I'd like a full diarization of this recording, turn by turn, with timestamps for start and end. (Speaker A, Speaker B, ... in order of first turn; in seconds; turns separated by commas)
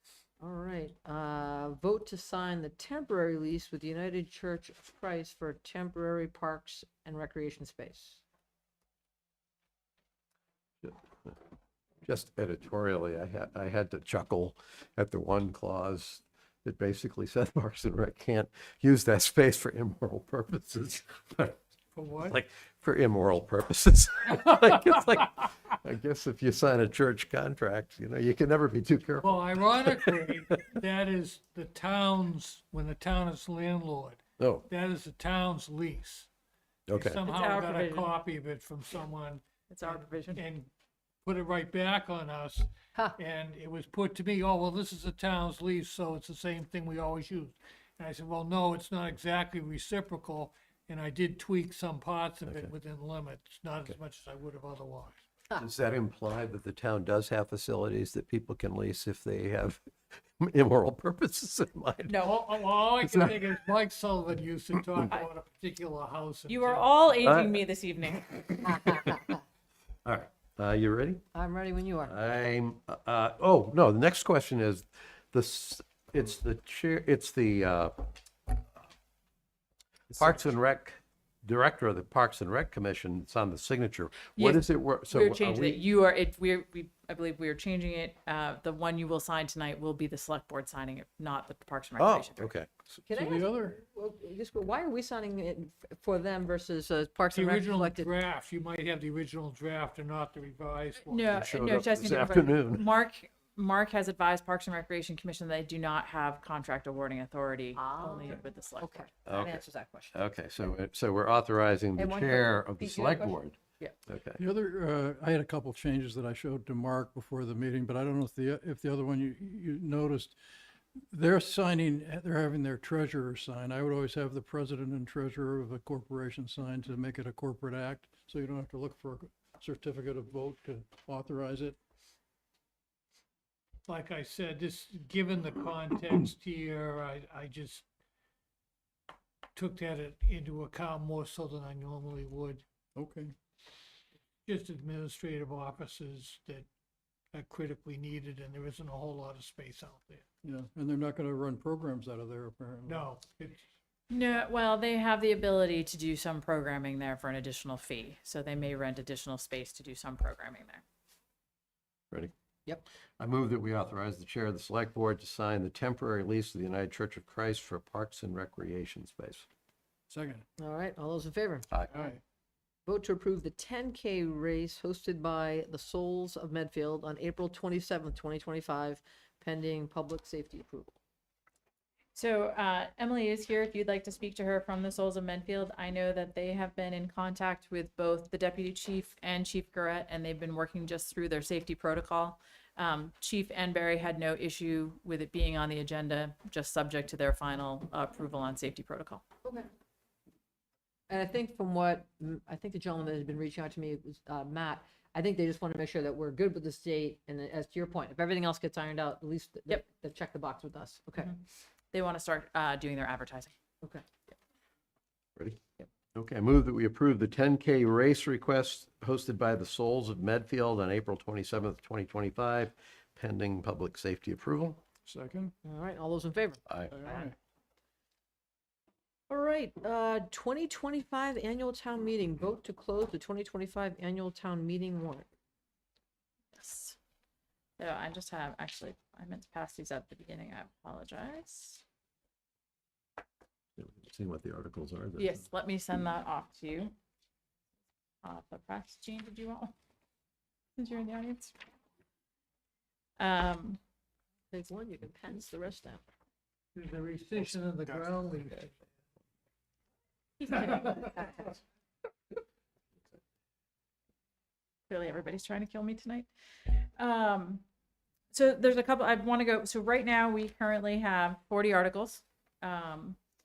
Speaker A: 0.4-8.2, Speaker B: 10.8-11.3, Speaker B: 12.0-21.6, Speaker C: 21.9-22.4, Speaker B: 22.2-30.1, Speaker C: 29.2-36.3, Speaker B: 34.4-34.6, Speaker B: 36.9-37.2, Speaker C: 36.9-40.7, Speaker D: 37.2-38.1, Speaker D: 39.7-40.4, Speaker C: 41.2-55.2, Speaker B: 52.5-52.7, Speaker B: 55.5-59.8, Speaker B: 60.4-63.5, Speaker D: 62.1-62.3, Speaker C: 62.2-67.0, Speaker D: 66.5-69.1, Speaker B: 67.2-67.6, Speaker B: 68.5-69.3, Speaker B: 70.0-71.2, Speaker A: 71.3-72.1, Speaker B: 72.1-78.5, Speaker B: 80.1-85.8, Speaker D: 84.3-92.5, Speaker B: 92.0-92.7, Speaker A: 93.0-98.1, Speaker E: 93.1-93.8, Speaker C: 97.3-101.3, Speaker D: 101.0-109.1, Speaker B: 101.3-102.9, Speaker A: 107.7-110.2, Speaker B: 109.2-114.4, Speaker A: 112.0-113.9, Speaker E: 114.4-120.4, Speaker E: 121.1-131.8, Speaker C: 133.9-137.8, Speaker C: 139.6-142.6, Speaker E: 142.9-143.3, Speaker C: 144.4-146.7, Speaker C: 147.3-150.2, Speaker E: 150.4-153.1, Speaker C: 152.8-153.7, Speaker D: 154.1-160.8, Speaker B: 163.2-169.4, Speaker E: 170.1-170.4, Speaker A: 170.6-171.7, Speaker E: 171.9-172.2, Speaker A: 172.8-180.9, Speaker D: 182.1-199.2, Speaker A: 201.1-211.3, Speaker D: 211.9-213.5, Speaker B: 215.3-215.6, Speaker B: 216.1-224.8, Speaker E: 225.1-225.5, Speaker A: 225.6-227.2, Speaker B: 226.7-226.9, Speaker E: 226.9-227.3, Speaker A: 229.3-235.3, Speaker D: 236.6-237.0, Speaker D: 237.8-241.8, Speaker B: 243.8-245.4, Speaker D: 245.2-246.9, Speaker D: 248.2-249.7, Speaker D: 250.8-251.6, Speaker D: 253.2-253.8, Speaker A: 254.5-256.0, Speaker C: 256.7-258.8, Speaker D: 260.4-261.4, Speaker C: 260.5-261.1, Speaker D: 264.9-267.6, Speaker D: 268.3-273.2